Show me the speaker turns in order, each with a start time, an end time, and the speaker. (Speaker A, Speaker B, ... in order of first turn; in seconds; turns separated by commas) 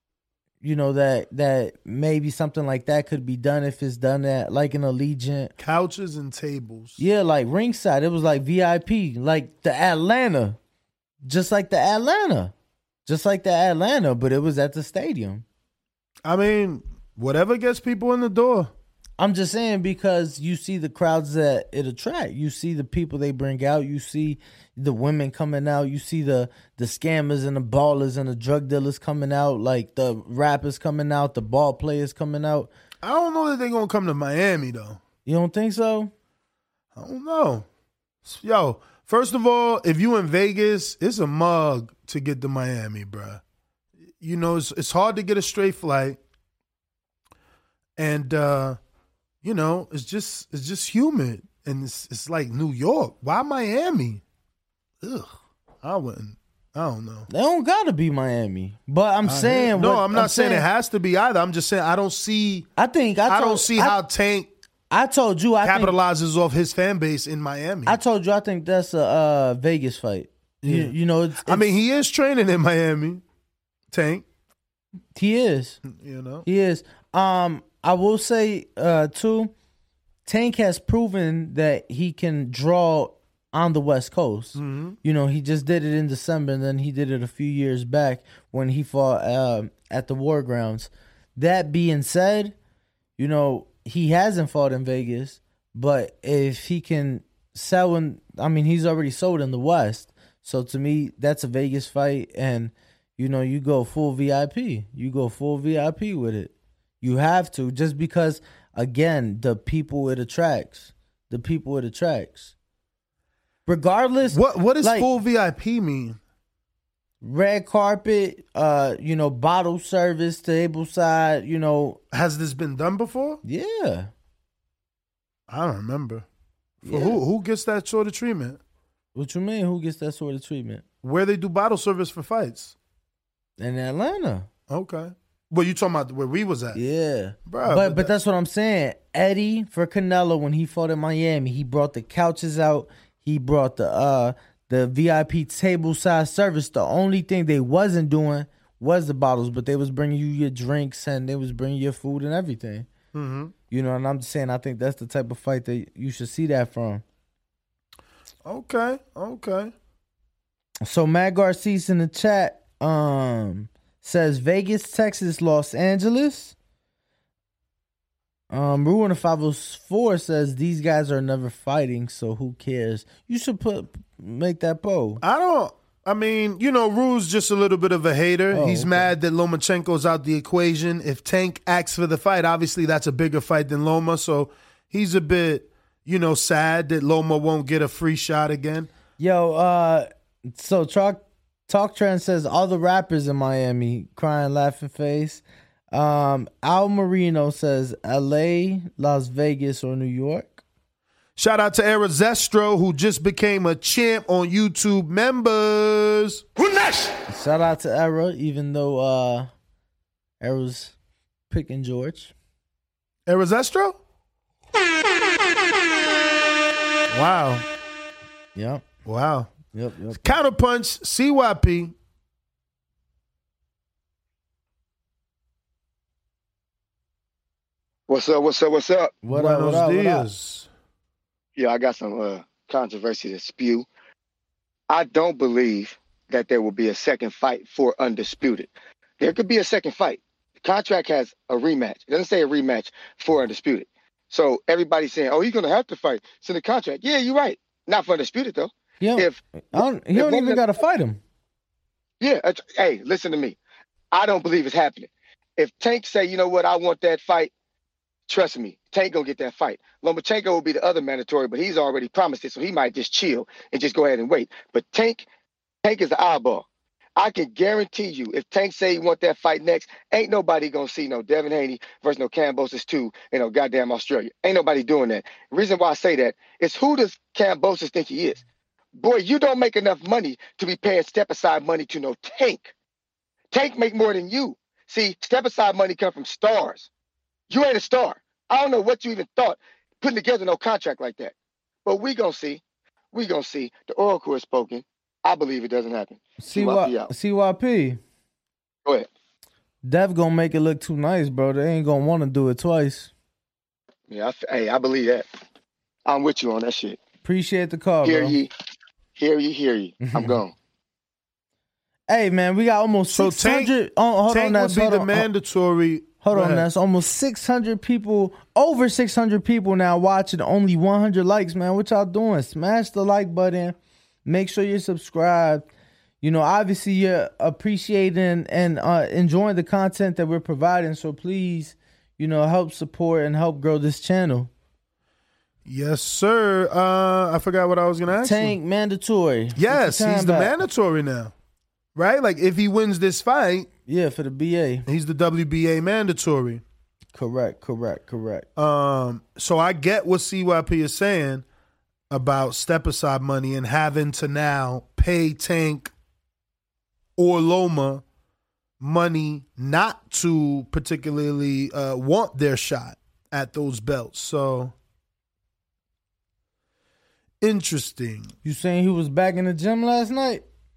Speaker A: 0.6-5.5, Speaker B: 5.6-7.0, Speaker A: 7.0-10.6, Speaker A: 11.2-12.5, Speaker A: 13.1-15.4, Speaker B: 16.2-18.7, Speaker A: 19.2-32.7, Speaker B: 33.0-35.0, Speaker A: 35.3-36.1, Speaker B: 37.0-37.7, Speaker B: 38.2-43.4, Speaker B: 44.2-46.2, Speaker B: 48.0-48.8, Speaker B: 49.4-54.2, Speaker B: 55.0-57.3, Speaker A: 57.3-60.6, Speaker B: 59.2-62.7, Speaker A: 62.8-64.0, Speaker B: 63.3-64.5, Speaker A: 64.9-66.0, Speaker B: 65.6-68.0, Speaker A: 67.9-71.7, Speaker B: 70.6-70.9, Speaker B: 71.5-73.2, Speaker B: 73.9-74.2, Speaker A: 75.2-75.8, Speaker B: 75.8-76.5, Speaker A: 76.5-79.5, Speaker A: 80.3-92.5, Speaker B: 84.6-85.0, Speaker A: 93.2-112.5, Speaker A: 113.7-115.1, Speaker B: 114.3-116.2, Speaker A: 117.2-122.0, Speaker B: 122.1-123.4, Speaker A: 123.4-124.1, Speaker B: 125.5-126.3, Speaker A: 126.8-127.2, Speaker B: 126.9-128.6, Speaker A: 129.2-130.8, Speaker B: 131.0-132.8, Speaker A: 133.6-134.5, Speaker B: 134.7-136.8, Speaker A: 136.8-152.9, Speaker B: 137.5-138.1, Speaker B: 153.1-153.5, Speaker A: 153.7-157.0, Speaker B: 158.4-159.7, Speaker A: 160.8-166.6, Speaker A: 168.5-175.2, Speaker B: 175.2-188.9, Speaker A: 178.5-179.1, Speaker A: 189.2-200.6, Speaker B: 201.4-206.5, Speaker A: 207.3-209.5, Speaker A: 210.4-210.9, Speaker A: 211.5-212.3, Speaker B: 213.3-214.0, Speaker B: 217.1-217.7, Speaker A: 218.6-218.9, Speaker B: 219.1-219.5, Speaker A: 219.7-220.2, Speaker B: 220.2-221.9, Speaker C: 228.1-229.2, Speaker A: 229.2-230.3, Speaker B: 229.3-230.7, Speaker C: 231.6-233.9, Speaker C: 234.9-250.6, Speaker A: 249.0-251.2, Speaker C: 252.2-253.6, Speaker C: 254.1-257.5, Speaker C: 258.3-265.3, Speaker C: 265.8-278.4, Speaker C: 279.0-282.7, Speaker C: 283.5-286.9, Speaker C: 287.5-291.3, Speaker C: 291.9-292.6, Speaker C: 293.1-297.1, Speaker A: 296.4-298.0, Speaker A: 299.8-303.1, Speaker C: 304.1-305.3, Speaker C: 306.1-307.0, Speaker A: 307.2-308.4, Speaker C: 308.0-308.5, Speaker C: 309.2-310.5, Speaker A: 310.0-310.4, Speaker A: 312.1-315.3, Speaker B: 313.1-313.7, Speaker B: 314.3-316.7, Speaker A: 316.2-325.7, Speaker A: 326.2-334.5, Speaker B: 335.6-338.6, Speaker A: 338.2-340.6, Speaker B: 339.6-341.3, Speaker B: 341.9-343.7, Speaker A: 343.9-344.9, Speaker B: 344.9-346.6, Speaker A: 347.1-348.5, Speaker B: 348.6-351.4, Speaker B: 352.1-355.9, Speaker B: 357.2-358.0, Speaker B: 358.8-364.7, Speaker B: 367.4-368.3, Speaker A: 368.4-370.4